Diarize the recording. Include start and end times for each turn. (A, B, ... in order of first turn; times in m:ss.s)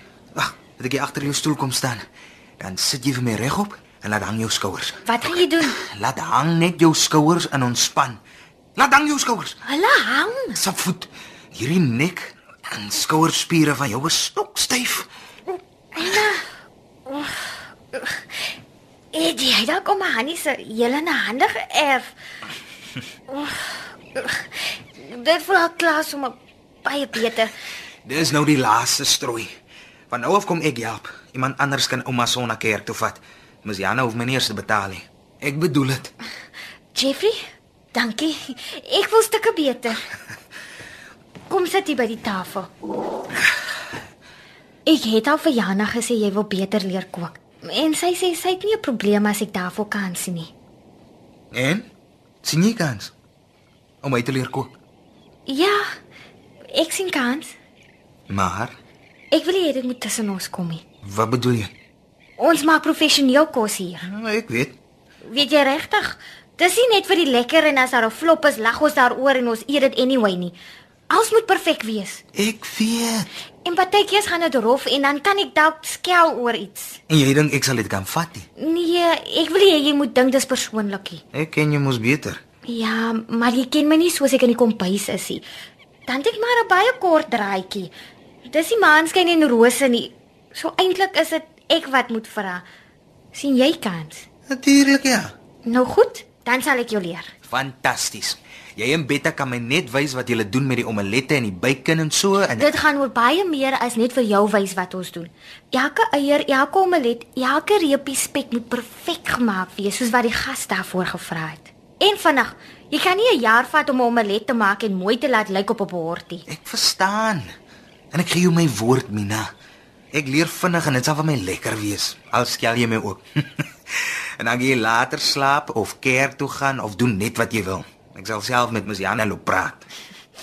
0:00.3-0:02.0 A
0:02.6-0:05.0 A
0:05.0-0:05.8 B
0:05.6-0:08.2 A
0:08.8-0:09.6 A
0:09.6-0:10.6 B
0:10.6-0:15.1 A
0:15.9-0:16.4 B
0:17.1-0:18.4 B
0:19.1-0:22.1 B
0:23.3-0:27.5 B
0:28.0-0:29.5 A
0:30.1-0:36.1 A
0:36.9-0:37.4 B
0:37.9-0:40.0 B
0:41.5-0:42.7 B
0:44.8-0:50.5 B
0:51.5-0:51.8 A
0:52.4-0:53.1 A
0:54.0-0:54.7 A
0:55.5-0:55.8 B
0:56.7-0:57.5 B
0:58.3-0:58.7 A
0:59.3-1:00.8 B
1:01.0-1:01.7 A
1:02.4-1:04.0 B
1:04.0-1:04.8 A
1:05.2-1:10.6 B
1:11.1-1:12.2 B
1:12.3-1:13.3 A
1:13.6-1:17.0 B
1:17.1-1:18.5 A
1:18.6-1:21.2 B
1:21.3-1:22.4 A
1:22.7-1:25.4 B
1:26.1-1:27.9 B
1:28.5-1:32.6 B
1:33.3-1:34.2 B
1:34.5-1:35.3 A
1:35.6-1:37.3 B
1:37.5-1:42.7 A
1:42.6-1:56.4 B
1:56.5-1:57.5 A
1:58.1-1:59.5 A
2:00.1-2:09.9 A